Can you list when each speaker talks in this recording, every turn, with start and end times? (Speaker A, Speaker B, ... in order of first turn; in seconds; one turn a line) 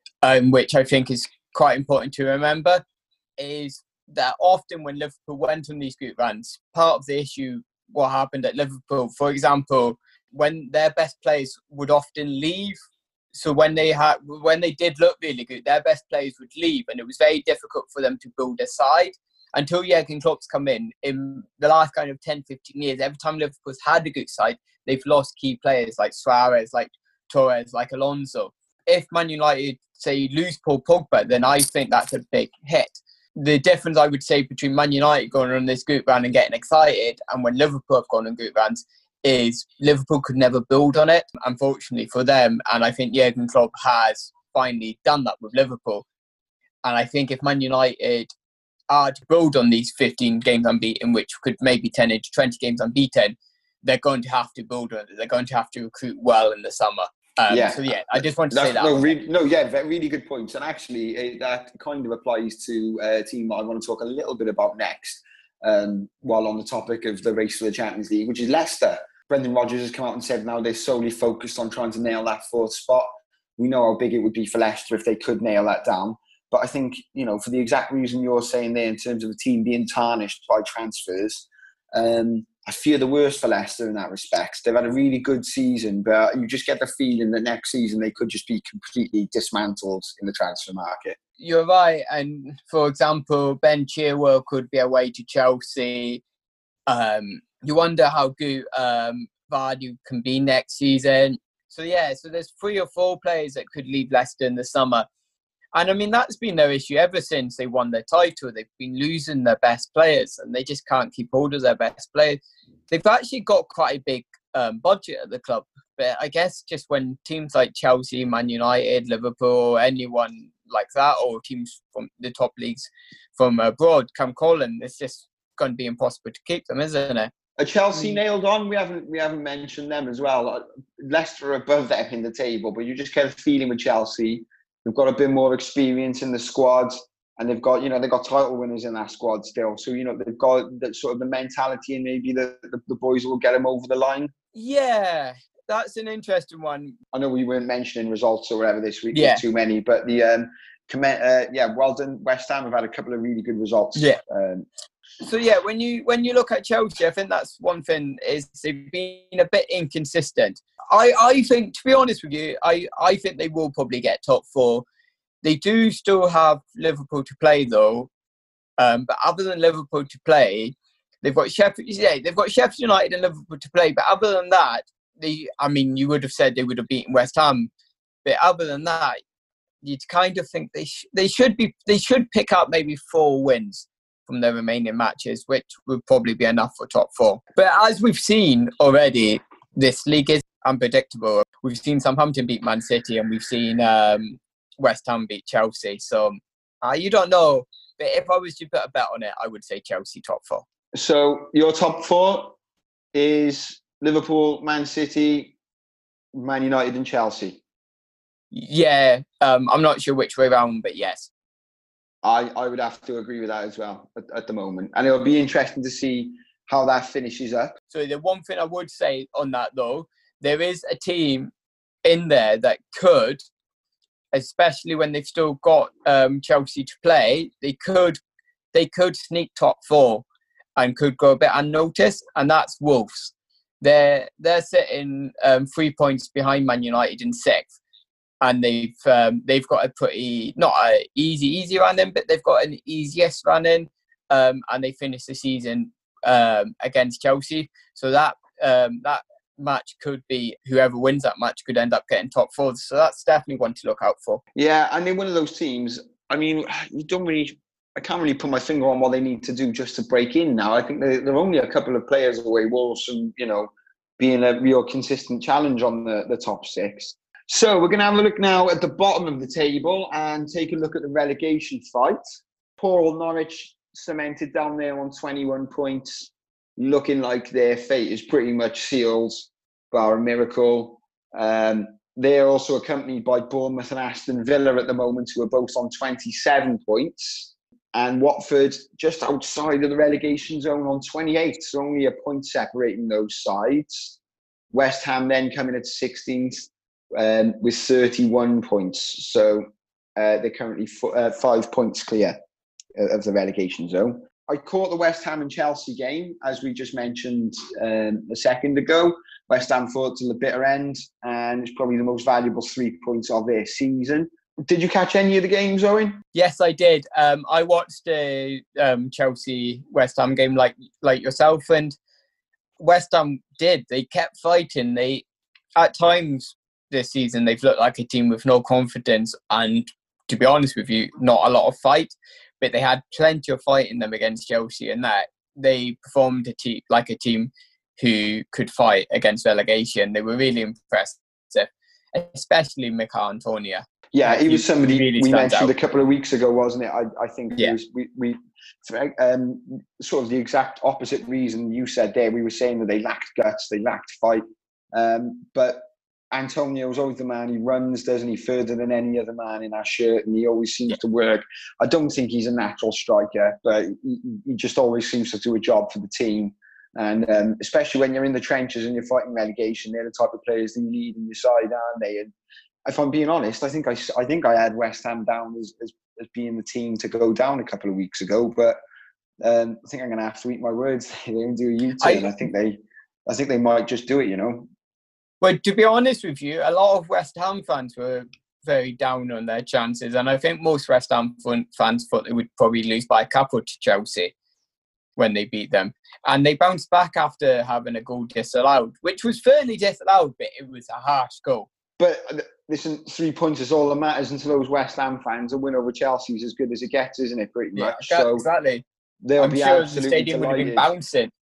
Speaker A: 0.2-2.8
Speaker A: 3.4-12.8
Speaker A: 13.3-46.0
Speaker A: 46.8-48.3
Speaker A: 48.9-59.1
Speaker B: 57.5-73.1
Speaker B: 73.6-91.2
Speaker A: 91.4-96.2
Speaker A: 96.9-105.1
Speaker A: 105.7-127.3
Speaker B: 127.6-144.3
Speaker A: 144.5-146.9
Speaker B: 147.1-154.7
Speaker A: 149.1-149.4
Speaker A: 153.9-154.2
Speaker A: 155.2-164.8
Speaker A: 165.4-168.1
Speaker A: 168.8-177.7
Speaker A: 178.2-179.2
Speaker A: 179.8-200.6
Speaker B: 200.9-202.6
Speaker B: 203.1-205.5
Speaker B: 206.3-207.6
Speaker A: 208.5-211.3
Speaker B: 212.2-217.8
Speaker A: 217.9-221.5
Speaker A: 222.0-223.4
Speaker A: 224.3-228.2
Speaker A: 228.7-230.2
Speaker A: 230.8-237.7
Speaker A: 238.4-254.4
Speaker B: 254.5-272.2
Speaker B: 272.8-294.2
Speaker B: 294.7-302.4
Speaker B: 302.9-316.2
Speaker A: 316.3-321.9
Speaker A: 322.8-325.2
Speaker A: 325.8-345.7
Speaker B: 344.1-354.4
Speaker B: 354.9-372.3
Speaker B: 372.9-378.8
Speaker B: 379.4-384.7
Speaker A: 382.0-382.3
Speaker A: 385.4-394.3
Speaker A: 395.2-401.7
Speaker B: 402.0-408.4
Speaker A: 407.7-408.8
Speaker B: 409.2-410.9
Speaker A: 409.4-411.3